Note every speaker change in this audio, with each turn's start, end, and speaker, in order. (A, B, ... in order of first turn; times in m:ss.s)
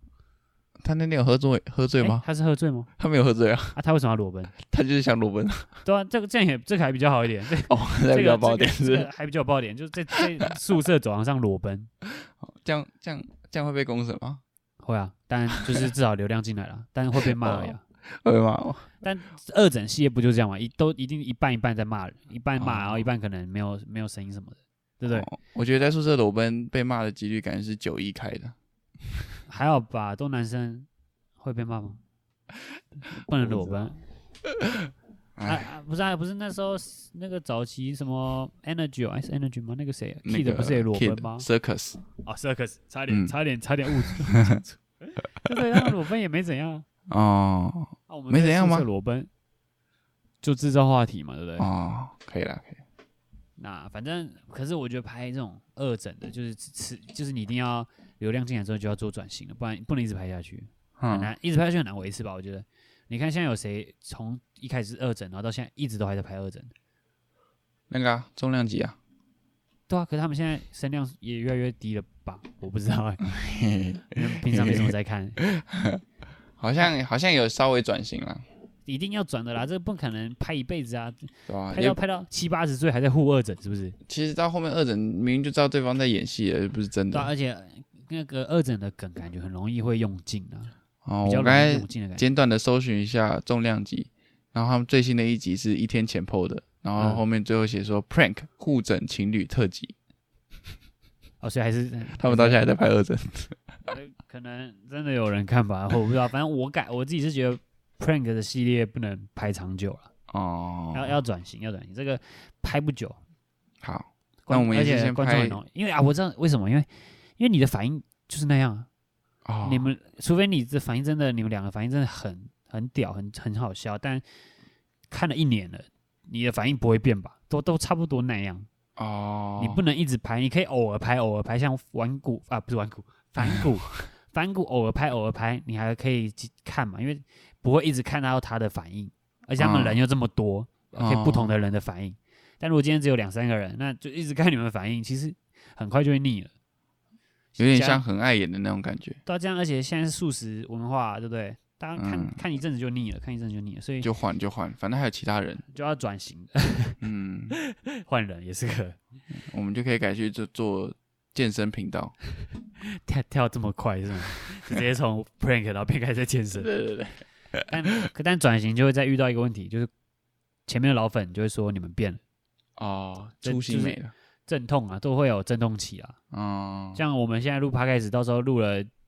0:00.8-0:02.2 A
0:02.0-0:02.9 B
0:03.0-0:03.8 A
0:03.7-0:04.5 B
0:04.5-0:05.7 A
0:05.8-0:11.9 B
0:07.7-0:09.1 A
0:12.0-0:14.4 A
0:14.8-0:17.8 B
0:15.5-0:15.9 A
0:17.2-0:18.9 A
0:19.0-0:25.3 B
0:22.6-0:23.1 A
0:25.1-0:28.5 A
0:29.5-0:30.9 B
0:31.4-0:32.0 B
0:32.8-0:33.9 A
0:33.1-0:34.0 B
0:34.4-0:35.6 A
0:35.4-0:41.5 B
0:40.2-0:42.0 A
0:42.2-0:46.8 B
0:44.0-0:44.6 A
0:47.1-0:48.9 A
0:48.1-0:49.3 B
0:50.4-0:51.7 B
0:51.6-0:52.8 A
0:53.6-1:06.7 B
1:01.0-1:01.3 A
1:07.9-1:09.0 A
1:09.9-1:13.2 B
1:13.2-1:16.0 A
1:14.1-1:15.4 B
1:16.6-1:18.4 A
1:18.8-1:24.0 B
1:21.5-1:22.0 A
1:24.0-1:27.3 A
1:27.1-1:32.2 B
1:31.0-1:39.9 A
1:37.0-1:37.2 B
1:41.4-1:42.6 B
1:42.2-1:43.6 A
1:43.9-1:50.1 B
1:50.3-1:51.2 A
1:50.9-1:53.2 B
1:53.8-1:55.6 A
1:54.4-1:58.9 B
1:59.4-1:59.9 A
1:59.6-2:04.2 B
2:05.1-2:08.7 B
2:09.0-2:09.8 A
2:09.6-2:26.5 B
2:13.4-2:13.7 A
2:19.6-2:20.0 A
2:21.0-2:21.5 A
2:27.6-2:28.0 B
2:27.6-2:29.2 A
2:29.2-2:34.1 B
2:32.0-2:32.4 A
2:34.0-2:35.6 A
2:35.7-2:37.0 B
2:37.0-2:37.6 A
2:37.5-2:39.0 B
2:39.3-2:42.1 A
2:42.8-2:46.7 B
2:46.5-2:47.7 A
2:47.7-2:49.9 B
2:50.7-2:52.2 B
2:52.8-2:54.1 A
2:53.4-2:56.2 B
2:56.3-2:57.0 A
2:56.9-2:58.9 B